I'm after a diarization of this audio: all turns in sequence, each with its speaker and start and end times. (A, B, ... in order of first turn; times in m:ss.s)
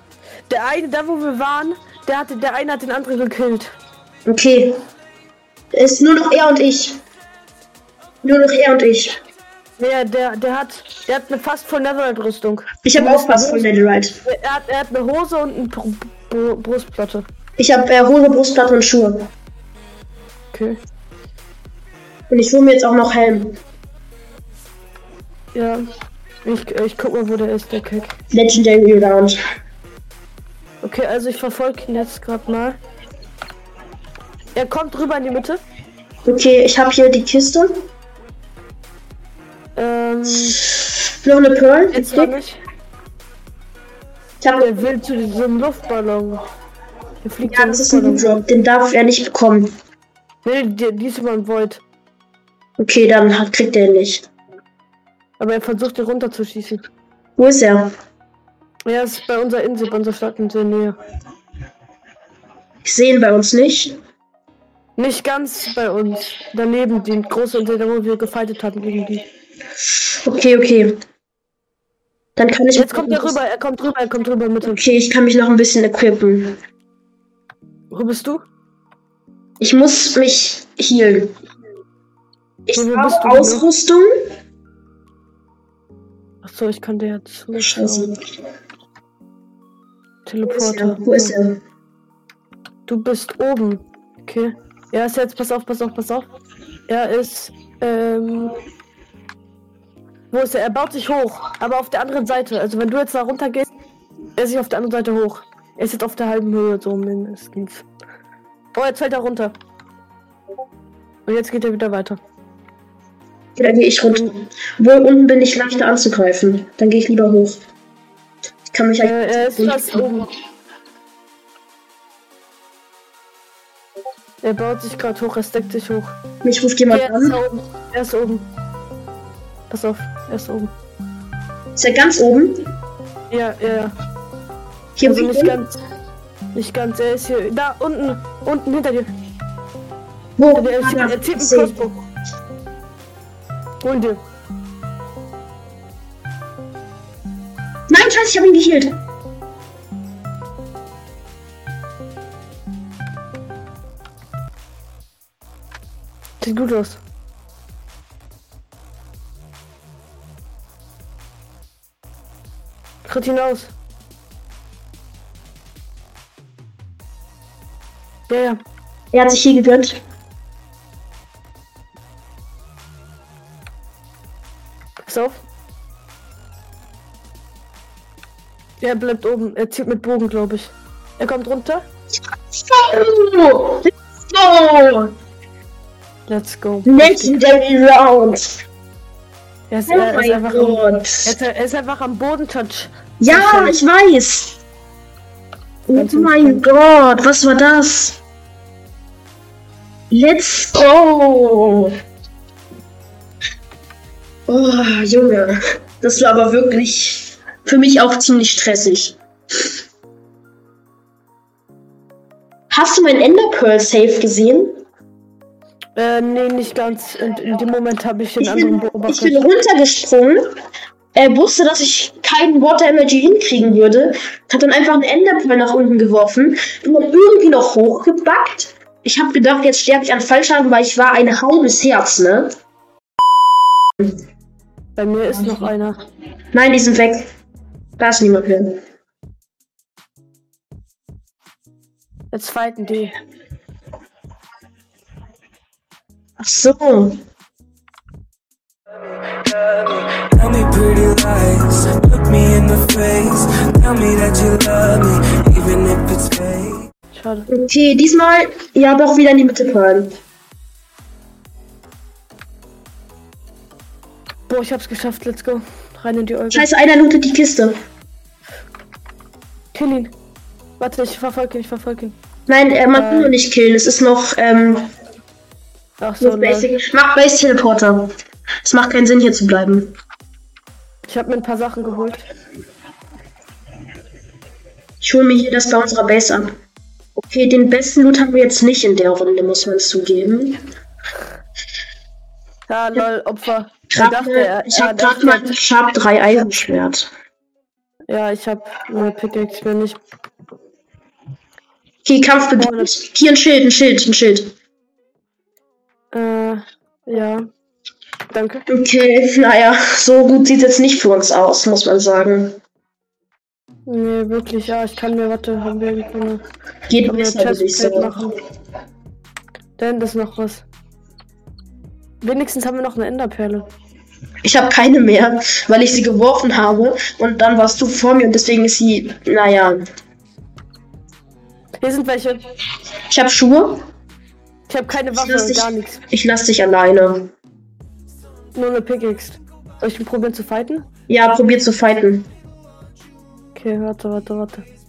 0:00.5-0:03.7 A
0:04.2-0:04.7 B
0:05.7-0:07.0 B
0:08.2-0:09.2 B
0:09.8-0:13.7 A
0:12.8-0:14.2 B
0:14.2-0:17.3 A
0:17.6-0:19.3 B
0:20.5-0:20.8 A
0:22.3-0:23.6 B
0:25.5-0:25.8 A
0:26.4-0:28.1 A
0:28.3-0:29.4 B
0:30.8-0:32.8 A
0:34.5-0:35.6 A
0:36.2-0:37.7 B
0:39.8-0:40.6 A
0:41.2-0:42.3 B
0:41.9-0:42.6 A
0:44.4-0:44.7 B
0:44.6-0:46.4 A
0:47.2-0:48.4 A
0:47.4-0:49.7 B
0:50.4-0:51.8 A
0:52.8-0:54.3 B
0:55.4-0:56.8 A
0:57.4-0:57.9 B
0:58.9-1:01.0 A
1:02.8-1:04.0 B
1:05.0-1:09.2 A
1:10.2-1:11.0 B
1:12.4-1:13.4 B
1:12.8-1:14.9 A
1:14.6-1:16.6 B
1:17.9-1:18.4 A
1:19.6-1:21.3 B
1:22.7-1:24.1 B
1:22.7-1:23.6 A
1:26.4-1:28.1 A
1:27.6-1:28.1 B
1:30.2-1:31.3 A
1:30.4-1:31.6 B
1:32.9-1:36.3 A
1:36.9-1:38.5 A
1:40.3-1:43.7 A
1:44.4-1:47.8 A
1:48.7-1:49.5 A
1:51.2-1:52.2 A
1:53.6-1:57.6 B
1:58.7-2:00.1 B
1:59.0-2:00.3 A
2:04.4-2:06.2 A
2:06.4-2:07.4 B
2:06.9-2:08.4 A
2:09.7-2:10.7 A
2:11.7-2:12.7 B
2:13.3-2:13.9 A
2:15.0-2:15.6 B
2:15.0-2:15.8 A
2:16.5-2:19.1 A
2:20.4-2:21.7 B
2:20.5-2:22.0 A
2:23.8-2:24.2 A
2:27.9-2:29.0 B
2:36.4-2:37.0 A
2:43.0-2:43.7 A
2:48.3-2:48.6 A
2:49.1-2:50.0 B
2:55.0-2:55.4 A
2:58.8-3:01.8 A
3:02.5-3:05.1 B
3:06.3-3:07.3 A
3:06.8-3:08.6 B
3:09.7-3:13.8 A
3:09.9-3:11.4 B
3:13.2-3:14.6 B
3:15.9-3:18.2 B
3:15.9-3:16.6 A
3:20.1-3:21.9 B
3:24.5-3:29.2 B
3:32.7-3:34.8 B
3:36.0-3:39.4 A
3:38.4-3:40.5 B
3:41.1-3:52.5 B
3:55.0-3:56.0 A
3:56.5-3:57.3 B
3:58.0-3:58.8 B
4:02.3-4:03.1 A
4:06.4-4:07.2 B
4:09.8-4:16.8 C
4:17.1-4:17.5 A
4:17.5-4:20.1 B
4:24.5-4:26.7 A
4:26.5-4:27.8 B
4:29.7-4:30.1 A
4:30.8-4:32.2 A
4:32.5-4:34.9 B
4:32.9-4:33.3 A
4:36.0-4:36.7 A
4:36.2-4:38.1 B
4:38.6-4:40.0 B
4:41.0-4:42.2 A
4:45.0-4:46.6 B
4:47.2-4:50.6 B
4:52.7-4:55.5 A
4:53.9-4:57.1 B
4:58.1-5:00.0 A
5:02.0-5:04.5 B
5:02.6-5:02.9 A
5:06.1-5:07.5 A
5:08.3-5:08.6 A
5:08.7-5:12.6 B
5:13.8-5:16.4 A
5:16.9-5:18.2 B
5:17.0-5:18.3 A
5:19.8-5:20.6 A
5:22.2-5:23.7 A
5:24.4-5:29.8 B
5:31.8-5:32.4 A
5:33.1-5:33.8 B
5:34.7-5:36.0 A
5:35.1-5:37.3 B
5:38.5-5:40.8 A
5:41.1-5:42.3 B
5:43.5-5:44.6 A